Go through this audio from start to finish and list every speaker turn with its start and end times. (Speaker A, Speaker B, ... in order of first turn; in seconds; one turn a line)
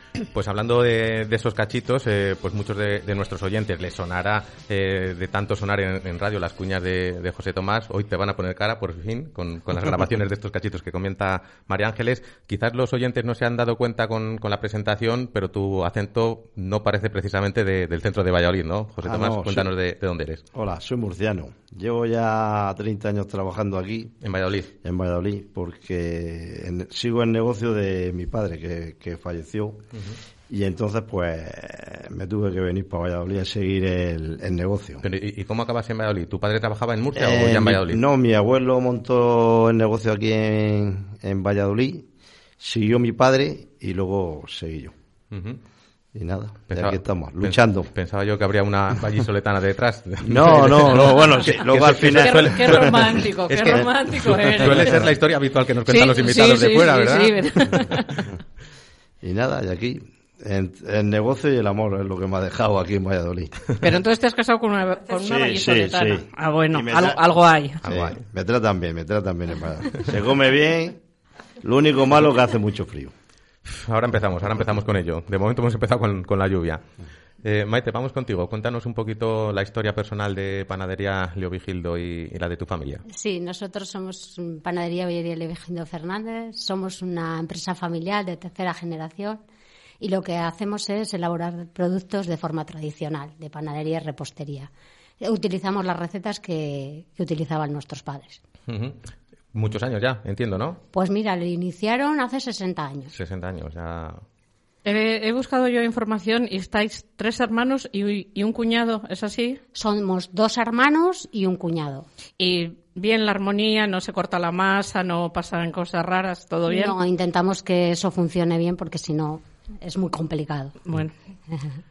Speaker A: 0.3-20.4
Speaker B: 19.0-19.7
Speaker B: 20.5-24.1
Speaker A: 24.2-24.7
Speaker B: 24.8-29.8
Speaker B: 30.5-35.0
Speaker A: 35.0-38.0
Speaker B: 37.1-42.1
Speaker B: 42.6-44.9
Speaker A: 45.3-45.6
Speaker B: 46.1-47.9
Speaker A: 46.7-57.8
Speaker B: 50.2-53.0
Speaker C: 52.1-55.1
Speaker B: 54.5-55.1
Speaker C: 55.9-58.3
Speaker B: 59.2-63.6
Speaker C: 63.8-67.8
Speaker B: 65.2-67.2
Speaker A: 67.8-68.2
Speaker B: 67.8-71.0
Speaker B: 71.6-73.1
Speaker A: 73.7-76.8
Speaker A: 77.4-83.0
Speaker D: 83.1-89.4
Speaker D: 90.0-98.4
Speaker A: 98.7-99.0
Speaker A: 99.5-100.8
Speaker D: 100.9-103.1
Speaker A: 103.1-104.2
Speaker C: 104.8-109.6
Speaker D: 109.7-112.1
Speaker C: 112.4-117.0
Speaker D: 116.7-120.8
Speaker C: 120.8-121.1